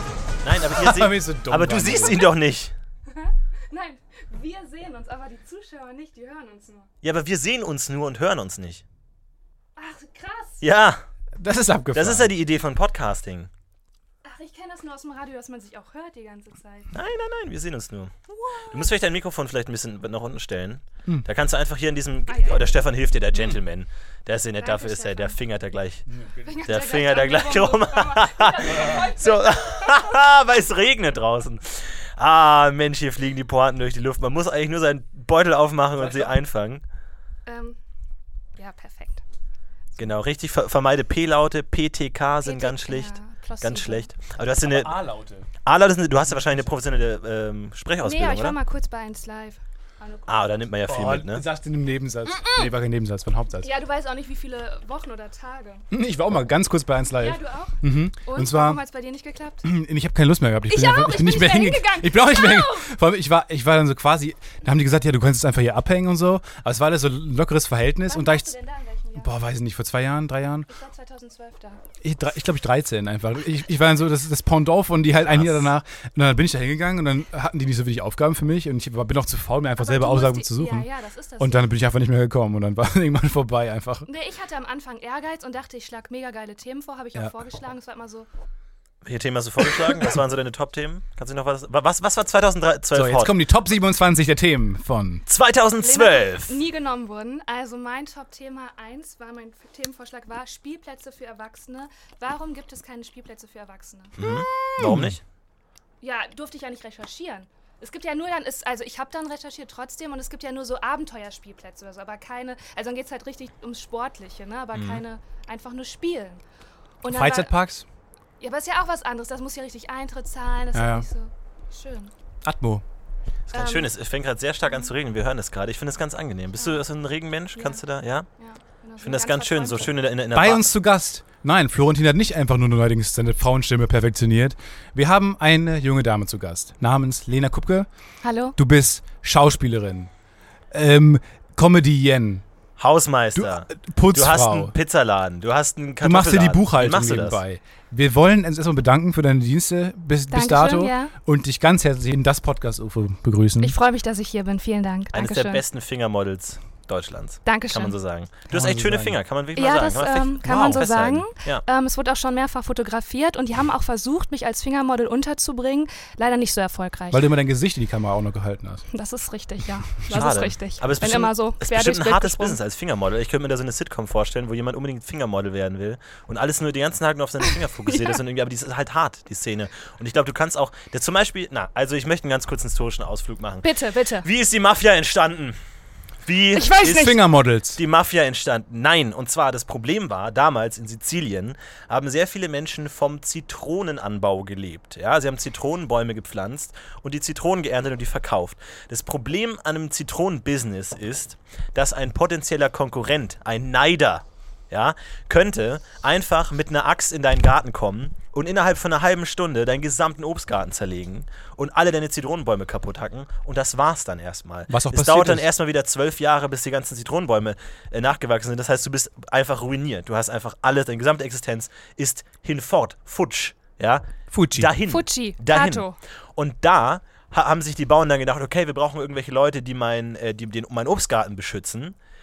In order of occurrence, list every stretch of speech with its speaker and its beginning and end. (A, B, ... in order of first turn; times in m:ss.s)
0:00.4-0:02.7 A
0:00.8-0:02.2 B
0:03.1-0:06.9 C
0:07.0-0:08.8 A
0:09.8-0:10.6 C
0:10.6-0:11.0 A
0:11.4-0:12.3 B
0:11.9-0:13.5 A
0:14.2-0:16.9 C
0:16.9-0:18.1 A
0:18.3-0:18.9 C
0:18.7-0:26.1 A
0:22.3-0:22.7 C
0:24.6-0:25.4 C
0:26.1-0:26.6 B
0:26.4-0:30.1 C
0:26.7-0:36.8 A
0:28.7-0:29.1 B
0:37.4-0:37.8 C
0:38.6-0:39.2 C
0:40.0-0:44.9 A
0:42.4-0:44.1 C
0:44.4-0:45.5 B
0:45.6-0:48.6 A
0:46.2-0:46.7 B
0:48.0-0:50.6 C
0:50.3-0:51.4 A
0:50.9-0:53.7 B
0:52.2-0:52.7 C
0:53.6-0:55.8 C
0:55.9-0:58.8 B
0:57.2-0:59.6 C
0:59.6-1:08.5 B
1:00.7-1:02.9 C
1:08.1-1:09.3 C
1:09.2-1:10.7 B
1:10.7-1:11.8 C
1:12.0-1:20.9 B
1:15.2-1:15.7 A
1:19.8-1:21.7 C
1:21.4-1:24.1 B
1:24.1-1:28.3 C
1:29.0-1:33.3 A
1:32.9-1:35.2 B
1:35.3-1:36.6 A
1:35.8-1:44.8 C
1:44.2-1:45.2 A
1:44.2-1:45.2 B
1:46.0-1:56.4 C
1:54.7-1:55.0 A
1:57.0-1:57.5 C
1:57.1-1:57.8 B
1:58.4-2:02.1 C
2:00.7-2:01.0 B
2:02.4-2:02.8 B
2:03.5-2:08.3 A
2:03.5-2:03.9 C
2:04.6-2:04.9 C
2:06.6-2:06.8 C
2:07.6-2:07.8 C
2:08.4-2:09.9 C
2:09.0-2:10.7 A
2:10.3-2:17.9 B
2:18.2-2:18.6 C
2:18.6-2:20.1 B
2:20.7-2:22.4 B
2:22.8-2:27.4 A
2:23.3-2:24.7 B
2:26.0-2:33.8 B
2:30.3-2:31.1 C
2:33.6-2:35.6 C
2:35.1-2:41.6 A
2:37.4-2:37.9 C
2:38.5-2:39.2 B
2:39.6-2:47.2 C
2:40.4-2:40.8 B
2:47.1-2:48.8 B
2:48.9-2:52.6 C
2:50.1-3:05.6 A
3:03.6-3:04.3 C
3:06.2-3:07.2 A
3:06.5-3:07.2 C
3:06.8-3:07.8 B
3:07.7-3:52.0 A
3:34.7-3:35.5 B
3:44.3-3:44.7 B
3:44.8-3:46.0 C